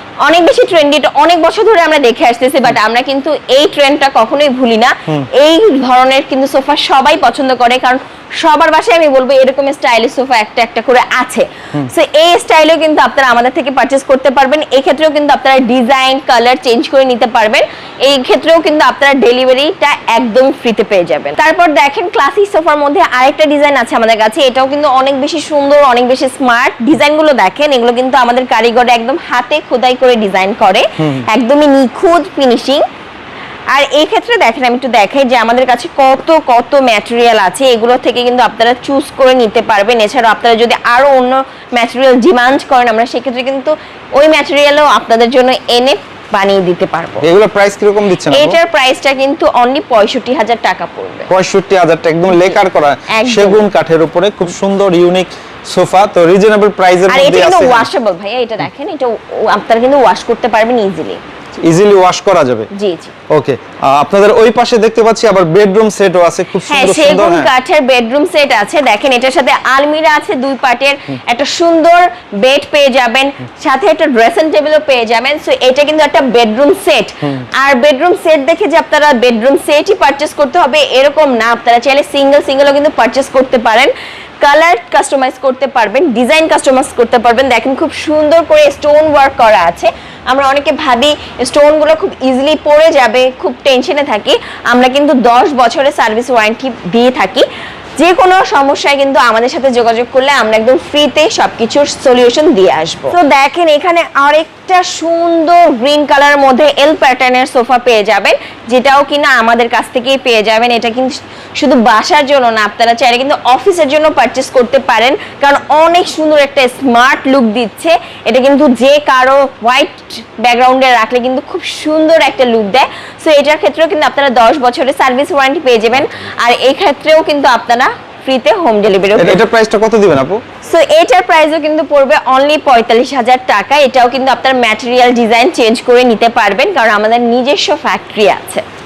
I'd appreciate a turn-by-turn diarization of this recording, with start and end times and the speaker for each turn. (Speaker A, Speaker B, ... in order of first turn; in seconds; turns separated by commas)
Speaker A: 0.2-32.8, Speaker A: 33.7-47.2, Speaker B: 47.2-48.6, Speaker A: 48.3-51.3, Speaker B: 51.3-57.9, Speaker A: 52.3-52.6, Speaker A: 53.1-53.6, Speaker A: 57.1-61.2, Speaker B: 61.6-62.7, Speaker A: 62.7-63.1, Speaker B: 63.3-67.5, Speaker A: 66.7-97.5, Speaker A: 98.0-129.4, Speaker B: 129.2-130.4, Speaker A: 130.6-138.6